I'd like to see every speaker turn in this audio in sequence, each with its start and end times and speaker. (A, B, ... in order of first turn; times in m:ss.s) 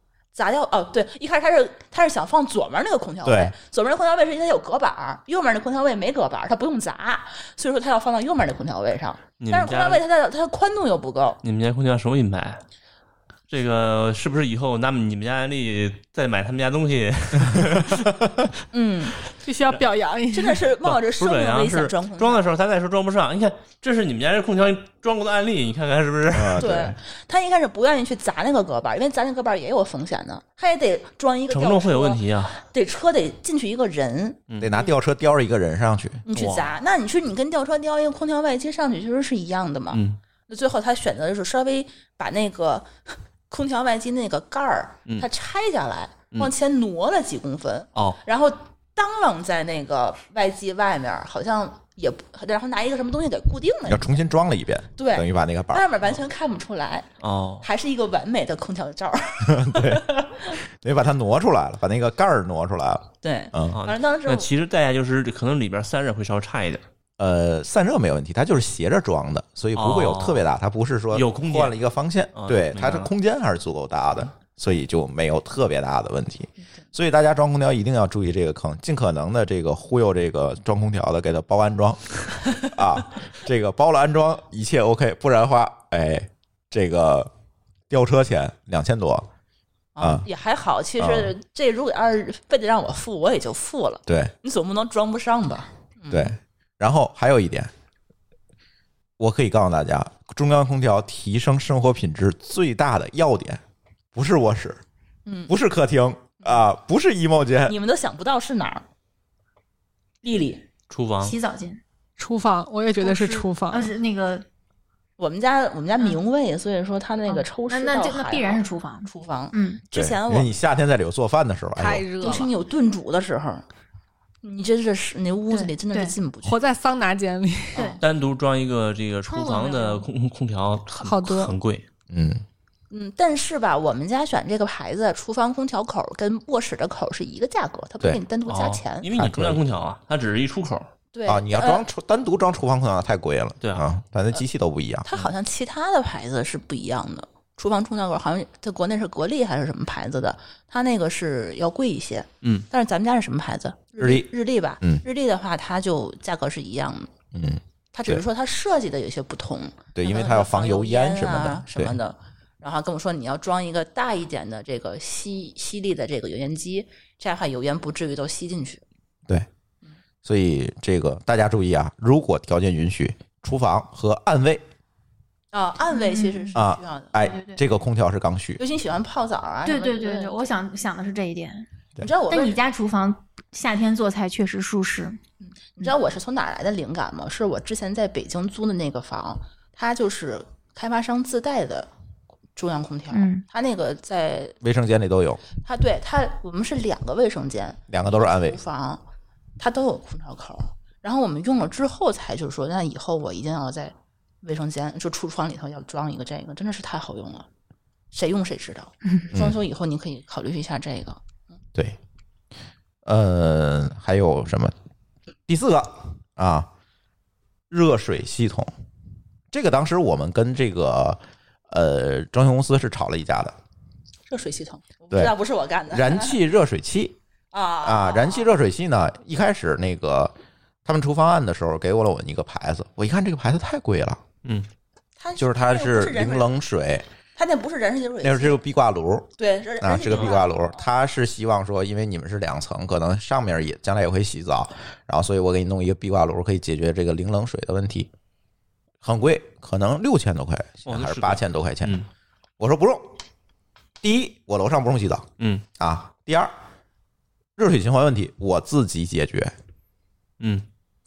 0:00.3-0:11.4 A
0:03.2-0:03.5 B
0:09.4-0:10.0 C
0:11.4-0:12.6 C
0:13.5-0:18.2 C
0:18.7-0:19.2 A
0:19.4-0:20.6 D
0:20.3-0:22.4 A
0:20.8-0:26.9 C
0:26.3-0:26.9 B
0:26.6-0:34.4 A
0:31.5-0:32.6 C
0:34.6-0:36.6 B
0:36.2-0:54.2 A
0:36.4-0:36.6 C
0:39.9-0:40.2 C
0:47.9-0:48.2 C
0:53.9-0:55.8 B
0:55.0-0:57.1 A
0:57.2-0:57.7 C
0:57.6-1:00.5 A
0:59.4-1:00.1 B
1:00.8-1:03.8 B
1:03.2-1:04.5 A
1:03.7-1:06.8 C
1:07.2-1:27.3 B
1:09.8-1:10.4 C
1:11.1-1:11.7 C
1:12.4-1:13.1 C
1:27.9-1:29.3 B
1:30.0-1:36.3 A
1:30.0-1:30.2 B
1:31.0-1:31.3 B
1:34.0-1:34.3 B
1:36.1-1:37.7 B
1:39.2-1:43.6 B
1:44.1-1:44.8 B
1:45.2-1:45.5 A
1:45.5-1:47.7 B
1:47.7-1:48.8 A
1:50.2-1:50.6 A
1:50.9-1:51.4 C
1:51.2-1:51.8 E
1:52.2-1:53.9 D
1:53.0-1:54.4 E
1:55.2-2:00.5 A
1:57.3-1:59.8 E
1:59.9-2:02.1 B
2:01.8-2:02.5 D
2:02.2-2:03.6 A
2:04.4-2:06.6 A
2:05.5-2:06.2 E
2:06.4-2:07.8 D
2:07.8-2:08.0 A
2:08.0-2:11.8 C
2:09.3-2:10.1 E
2:10.9-2:11.5 D
2:12.1-2:12.4 B
2:12.9-2:19.1 A
2:18.4-2:20.9 C
2:19.2-2:19.6 B
2:21.1-2:21.8 A
2:21.3-2:25.1 B
2:25.0-2:37.1 A
2:34.0-2:34.3 B
2:37.3-2:38.2 B
2:37.9-2:48.8 A
2:39.9-2:42.0 B
2:50.2-2:54.6 B
2:55.5-2:57.1 A
2:55.9-2:56.6 E
2:56.5-2:58.6 B
2:57.2-2:57.6 E
2:58.6-3:00.5 A
2:59.6-3:01.7 E
3:02.0-3:02.6 A
3:02.3-3:05.2 E
3:05.4-3:11.9 A
3:12.6-3:14.6 A
3:13.1-3:13.4 E
3:14.6-3:15.4 B
3:15.6-3:19.0 A
3:17.9-3:18.6 B
3:19.6-3:27.5 A
3:28.1-3:31.2 A
3:29.3-3:29.6 B
3:33.0-3:34.7 B
3:35.5-3:36.7 B
3:37.7-3:38.7 B
3:39.5-3:43.6 B
3:44.3-3:46.4 A
3:45.9-3:47.2 B
3:47.5-3:48.5 A
3:47.8-3:50.3 B
3:50.8-3:54.2 B
3:55.2-3:56.5 A
3:55.4-3:57.0 B
3:57.4-3:58.6 A
3:58.2-3:59.3 B
3:59.4-4:00.8 A
3:59.8-4:08.1 B
4:09.0-4:12.0 B
4:10.9-4:12.1 C
4:12.6-4:13.1 B
4:14.0-4:15.2 B
4:15.4-4:15.6 C
4:15.8-4:16.5 B
4:17.6-4:19.5 B
4:20.4-4:20.6 C